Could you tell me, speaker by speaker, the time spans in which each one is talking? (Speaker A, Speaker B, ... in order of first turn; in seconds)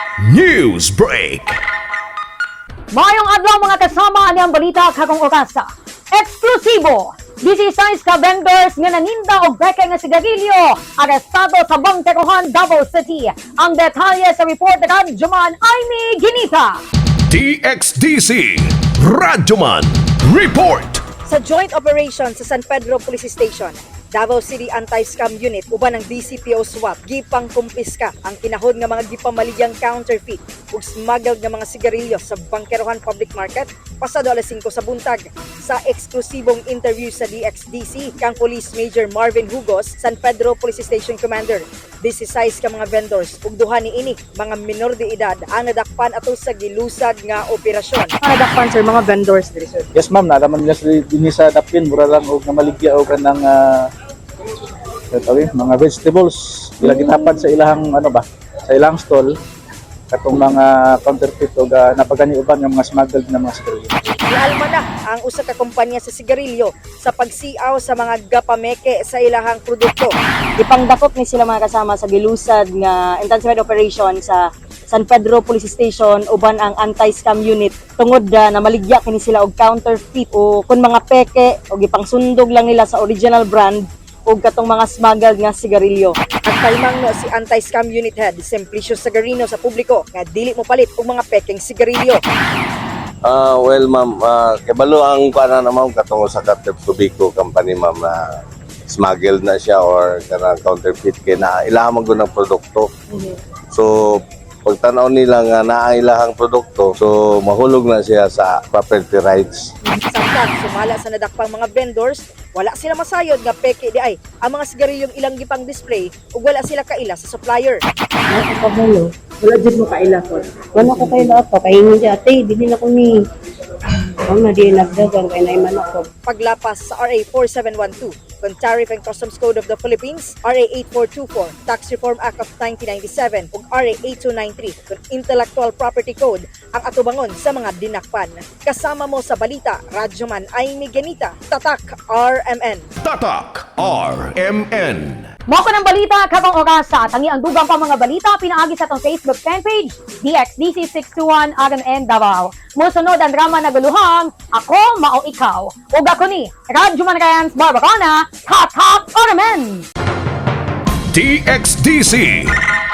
Speaker A: 0.2-1.6, 17.3-21.0, 143.0-145.3, 161.1-162.5
Speaker B: 2.9-16.8, 145.5-159.8
Speaker C: 21.3-48.2, 64.3-70.1, 86.4-92.2, 110.1-117.8, 126.3-142.9
Speaker D: 49.9-53.9, 55.1-59.3, 60.1-63.9
Speaker E: 70.6-86.1
Speaker F: 93.2-98.2, 98.9-102.9, 103.7-109.7
Speaker G: 118.3-123.2, 124.2-126.1